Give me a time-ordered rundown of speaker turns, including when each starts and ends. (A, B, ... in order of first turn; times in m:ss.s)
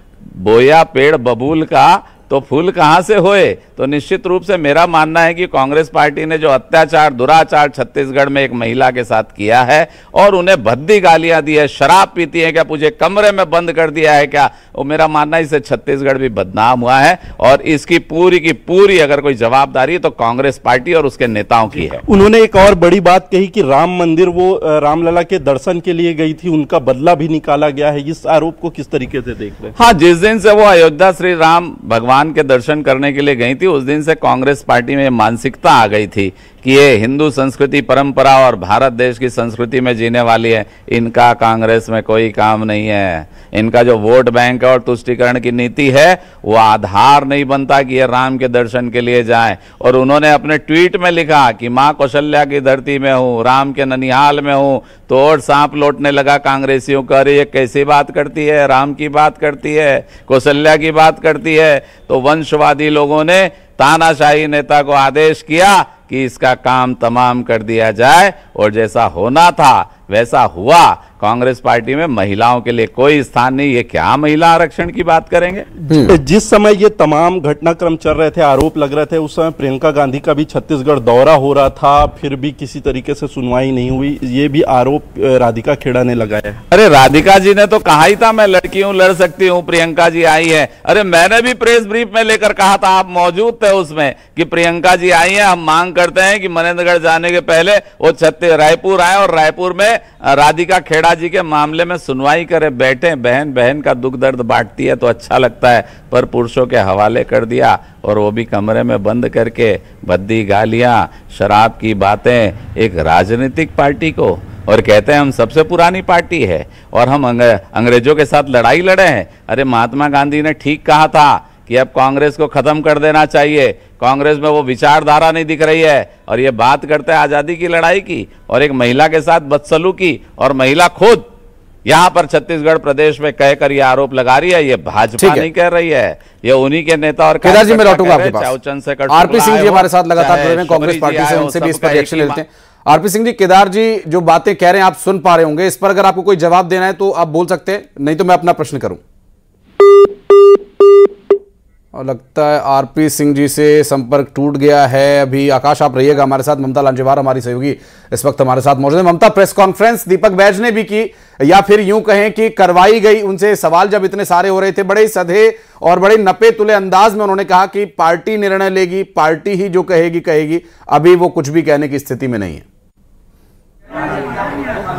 0:00.3-0:22.0 A
0:21.8-0:29.8 B
0:29.8-1:15.7 A
1:15.8-1:26.6 B
1:15.9-1:16.2 C
1:26.7-2:11.3 A
2:11.9-2:22.4 A
2:15.2-2:15.5 C
2:17.4-2:18.5 C
2:19.1-2:29.0 C
2:31.9-2:52.6 C